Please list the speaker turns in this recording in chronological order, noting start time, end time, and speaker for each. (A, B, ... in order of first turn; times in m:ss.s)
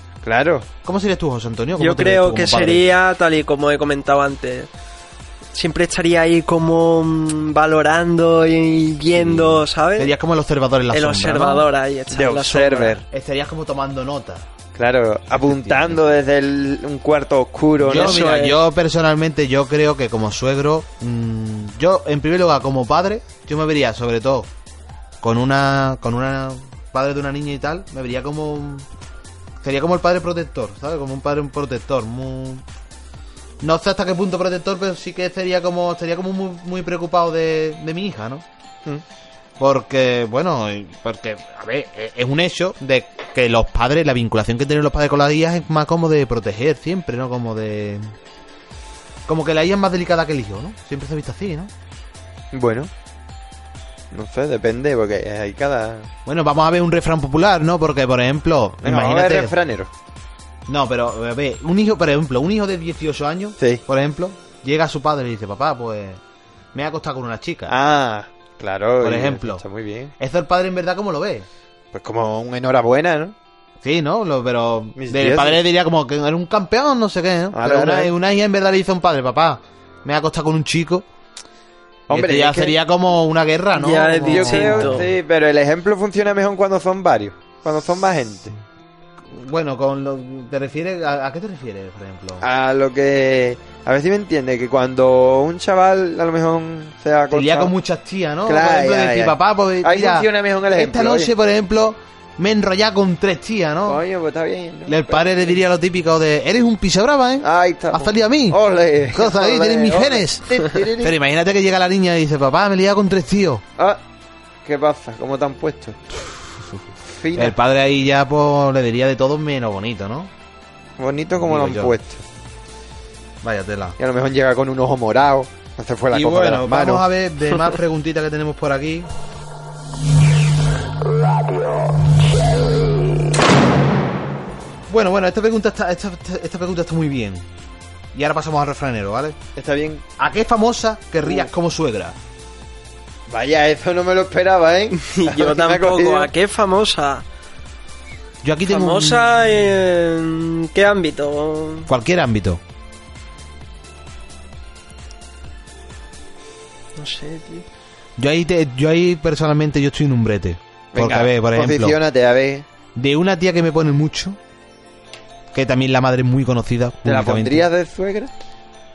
0:00.2-0:00.7 A
0:00.8-0:02.9 B
0:01.8-0:04.7 C
0:05.5-0:10.1 C
0:09.2-0:11.6 B
0:10.9-0:13.0 C
0:12.1-0:13.0 A
0:13.1-0:14.5 B
0:14.7-0:18.6 A
0:15.4-0:16.0 B
0:17.8-0:24.5 B
0:18.0-0:18.4 C
0:25.2-0:28.8 B
0:29.6-0:32.6 B
0:33.6-0:38.4 B
0:39.6-0:48.1 B
0:49.3-0:51.7 B
0:52.5-0:52.9 A
0:54.1-0:56.1 A
0:56.2-0:59.5 B
0:58.8-0:59.9 A
1:00.7-1:06.2 B
1:06.7-1:07.7 B
1:07.7-1:10.1 A
1:09.0-1:09.6 B
1:10.2-1:11.5 B
1:11.9-1:13.3 A
1:13.8-1:21.0 B
1:15.0-1:15.6 A
1:17.5-1:18.1 A
1:22.1-1:22.8 A
1:22.1-1:25.0 B
1:23.7-1:25.1 C
1:24.3-1:28.5 A
1:29.3-1:32.4 B
1:32.4-1:37.7 A
1:37.3-1:44.0 B
1:38.4-1:41.3 A
1:43.8-1:45.6 A
1:44.9-1:48.6 B
1:47.4-1:51.1 A
1:49.1-1:53.6 B
1:54.6-1:56.0 A
1:57.0-1:57.5 A
1:57.3-2:00.3 B
2:01.0-2:02.2 A
2:01.4-2:01.9 B
2:03.4-2:04.0 B
2:04.0-2:07.0 A
2:06.1-2:09.1 B
2:14.9-2:17.4 B
2:18.1-2:19.4 B
2:19.6-2:20.0 A
2:20.2-2:22.2 B
2:21.2-2:21.5 A
2:23.3-2:26.3 A
2:25.0-2:27.2 C
2:28.4-2:29.2 B
2:28.6-2:31.9 C
2:31.9-2:32.6 B
2:37.0-2:37.6 C
2:38.2-2:42.0 B
2:40.9-2:42.6 A
2:42.9-2:44.4 B
2:45.5-2:47.7 B
2:47.0-2:48.3 A